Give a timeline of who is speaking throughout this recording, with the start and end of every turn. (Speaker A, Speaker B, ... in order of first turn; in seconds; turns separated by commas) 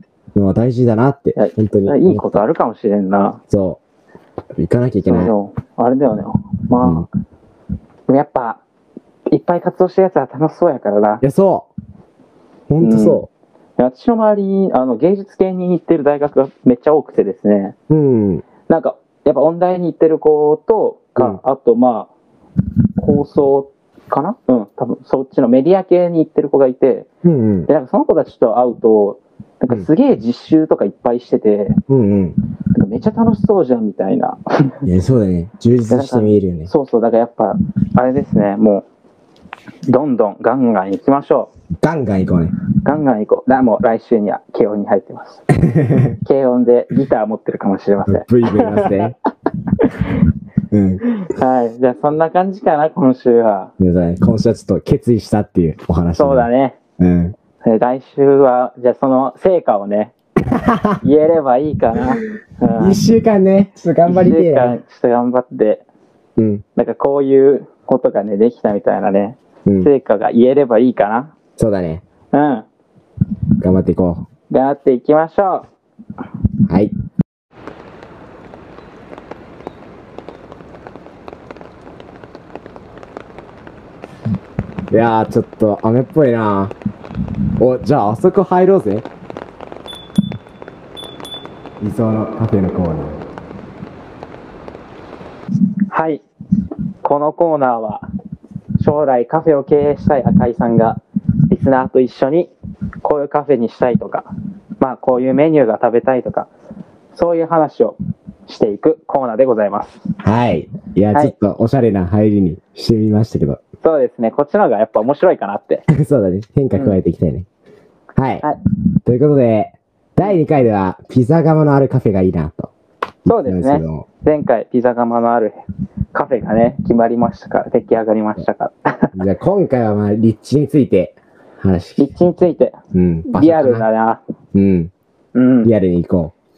Speaker A: 0.3-2.4, Speaker B: 1.4-3.4, Speaker A: 3.5-3.8, Speaker A: 4.6-5.3, Speaker B: 5.0-7.1, Speaker B: 8.1-8.6, Speaker B: 9.3-11.2, Speaker A: 11.2-11.7, Speaker A: 12.7-13.3, Speaker B: 12.8-13.2, Speaker B: 13.8-17.7, Speaker A: 17.9-18.4, Speaker B: 18.7-22.1, Speaker B: 23.0-27.1, Speaker A: 27.2-27.7, Speaker B: 27.7-31.8, Speaker A: 31.9-32.4, Speaker B: 32.7-34.8, Speaker A: 34.8-36.7, Speaker B: 35.9-38.9, Speaker B: 39.9-41.5, Speaker A: 41.8-42.5, Speaker B: 42.8-45.5, Speaker A: 45.6-46.2, Speaker B: 46.2-49.1, Speaker A: 48.1-49.1, Speaker B: 49.8-50.0, Speaker A: 50.7-51.0, Speaker B: 51.1-53.7, Speaker A: 53.8-56.5, Speaker B: 56.1-56.8, Speaker A: 57.0-57.3, Speaker B: 57.6-60.1, Speaker A: 60.5-61.0, Speaker B: 61.0-63.0, Speaker A: 62.8-64.8, Speaker B: 64.0-65.8, Speaker A: 66.4-66.6, Speaker B: 66.8-71.3, Speaker A: 71.6-72.0, Speaker B: 72.3-72.6, Speaker A: 73.6-74.2, Speaker B: 74.5-75.7, Speaker A: 76.7-76.9, Speaker A: 84.9-86.7, Speaker A: 87.6-89.0, Speaker A: 91.8-93.2, Speaker B: 95.9-96.2, Speaker B: 97.0-98.0, Speaker B: 98.8-102.5, Speaker B: 103.0-104.3, Speaker B: 104.8-106.5, Speaker B: 107.1-110.0, Speaker A: 110.2-113.6, Speaker B: 113.8-115.8, Speaker A: 115.9-117.5, Speaker B: 116.7-117.0, Speaker A: 118.2-118.5, Speaker A: 119.0-122.7, Speaker A: 123.2-124.0, Speaker B: 123.2-125.5, Speaker B: 126.1-129.1, Speaker A: 129.1-132.1, Speaker B: 132.0-132.8, Speaker A: 132.9-133.9, Speaker B: 133.3-134.2, Speaker A: 134.5-134.9, Speaker B: 135.3-135.7, Speaker A: 135.6-136.3